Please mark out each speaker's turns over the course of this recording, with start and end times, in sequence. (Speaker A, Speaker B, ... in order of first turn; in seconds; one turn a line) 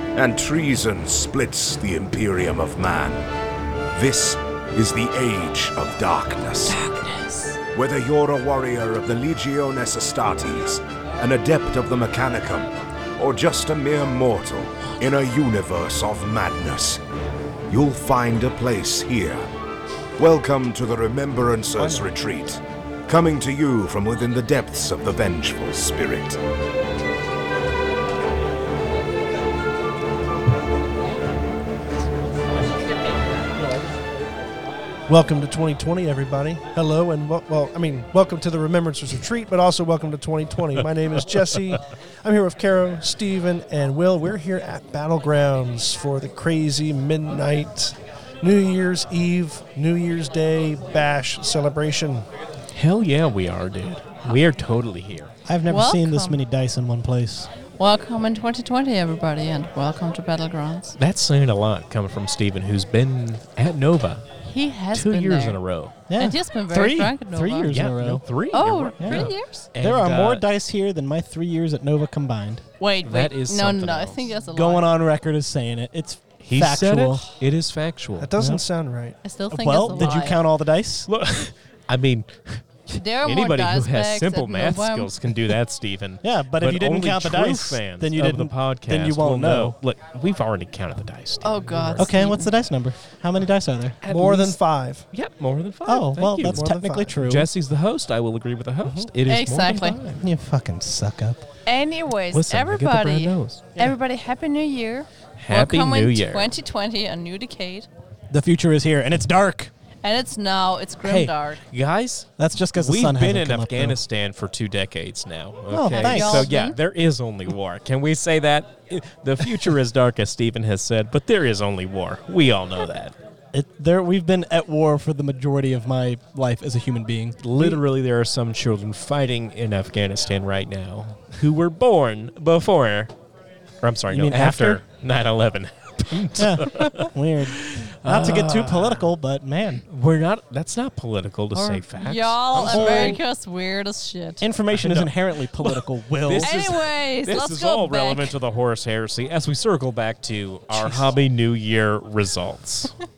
Speaker A: 0.1-3.2
Speaker A: 3.9-6.8
Speaker B: 6.7-7.6
Speaker A: 7.7-17.0
Speaker A: 17.7-19.4
Speaker A: 20.2-26.4
Speaker C: 21.8-22.1
Speaker C: 35.1-52.3
Speaker D: 52.7-55.3
Speaker E: 55.4-57.5
Speaker B: 55.7-56.4
Speaker B: 57.8-61.0
Speaker D: 61.0-64.2
Speaker B: 64.4-65.6
Speaker D: 64.9-65.9
Speaker E: 66.1-68.2
Speaker B: 66.2-67.7
Speaker D: 67.7-70.4
Speaker B: 68.5-69.7
Speaker E: 69.0-72.6
Speaker B: 72.8-74.9
Speaker D: 73.0-74.3
Speaker E: 74.5-77.3
Speaker D: 76.4-78.3
Speaker C: 78.2-79.2
Speaker E: 78.4-78.6
Speaker B: 79.2-80.4
Speaker E: 79.5-81.1
Speaker D: 81.0-92.2
Speaker B: 82.9-85.5
Speaker E: 86.2-89.8
Speaker B: 91.4-92.5
Speaker E: 92.0-94.0
Speaker D: 94.0-94.6
Speaker C: 94.0-95.0
Speaker D: 95.1-100.2
Speaker E: 95.8-97.5
Speaker C: 96.5-97.1
Speaker B: 99.3-100.0
Speaker E: 100.2-101.4
Speaker B: 101.7-107.9
Speaker D: 102.3-103.8
Speaker D: 105.4-106.5
Speaker E: 108.3-109.7
Speaker B: 110.0-111.6
Speaker D: 111.0-123.1
Speaker E: 112.4-114.0
Speaker E: 115.7-116.5
Speaker B: 116.0-116.8
Speaker E: 123.5-127.8
Speaker D: 127.4-133.1
Speaker D: 133.8-139.1
Speaker E: 134.1-134.8
Speaker E: 136.3-139.8
Speaker D: 139.9-143.2
Speaker B: 141.5-144.4
Speaker E: 142.5-143.2
Speaker E: 144.4-146.6
Speaker D: 144.8-152.9
Speaker B: 146.4-148.3